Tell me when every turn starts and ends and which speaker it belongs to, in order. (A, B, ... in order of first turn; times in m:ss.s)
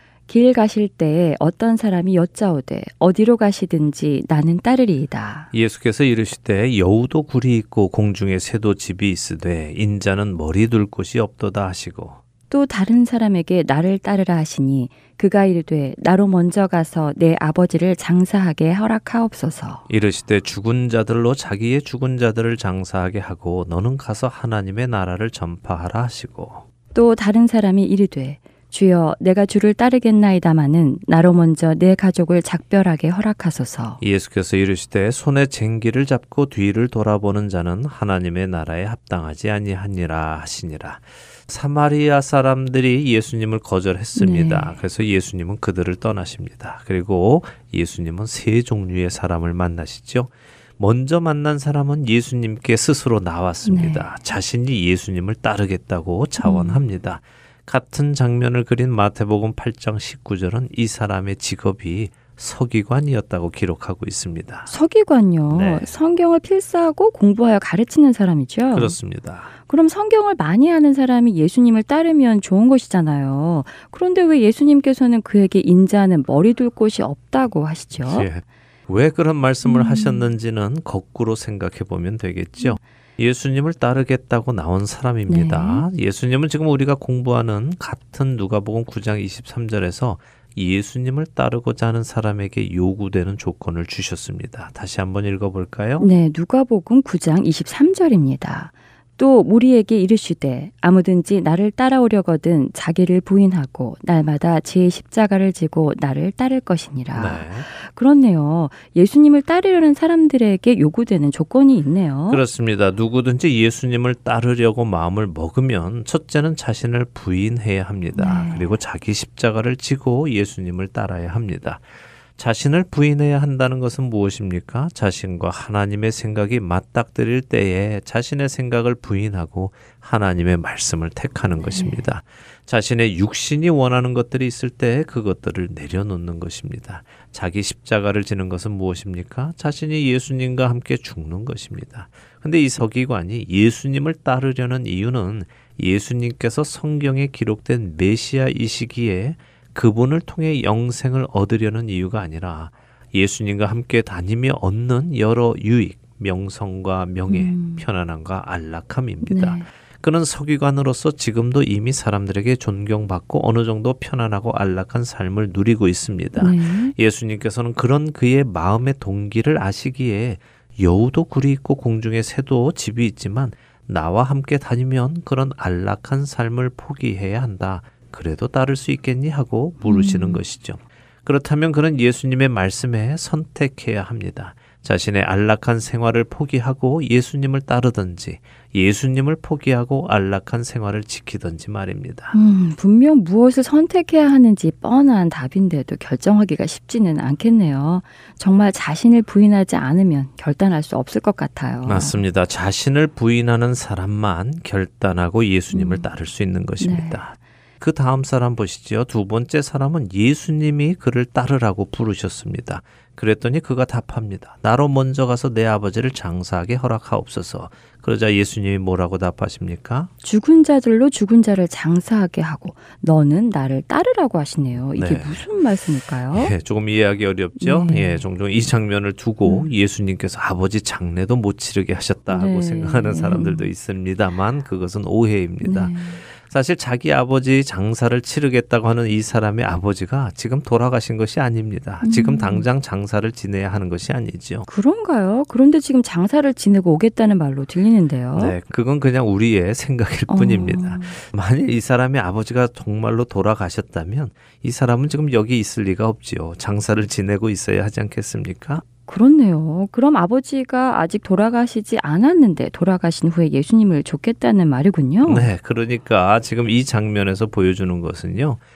0:00.3-0:05.5 A
0:05.5-0:12.2 B
0:12.5-0:19.9 A
0:19.9-0:26.6 B
0:26.9-0:34.0 A
0:34.0-1:04.7 B
0:44.2-0:44.8 A
0:53.6-0:54.1 A
0:56.4-0:56.8 A
1:04.7-1:09.0 A
1:05.5-1:05.9 B
1:08.7-1:09.5 B
1:09.6-1:18.3 A
1:18.0-1:36.1 B
1:19.6-1:20.3 A
1:25.3-1:25.9 A
1:36.0-1:52.4 A
1:47.1-1:47.7 B
1:52.3-2:01.8 B
1:58.2-1:58.8 A
2:02.4-3:12.4 B
2:11.6-2:12.0 A
2:37.3-2:37.9 A
2:39.2-2:39.7 A
2:46.4-2:47.0 A
2:59.8-3:00.4 A
3:12.3-3:22.2 A
3:21.8-3:40.1 B
3:25.7-3:26.1 A
3:26.8-3:27.3 A
3:40.2-3:46.5 A
3:45.0-3:45.4 B
3:46.3-4:04.7 B
3:47.6-3:48.2 A
3:49.4-3:49.7 A
3:52.3-3:53.7 A
3:55.6-3:56.2 A
4:02.0-4:02.7 A
4:04.7-4:08.6 A
4:08.4-4:18.8 B
4:10.3-4:11.2 A
4:19.1-4:25.5 A
4:25.2-4:28.6 B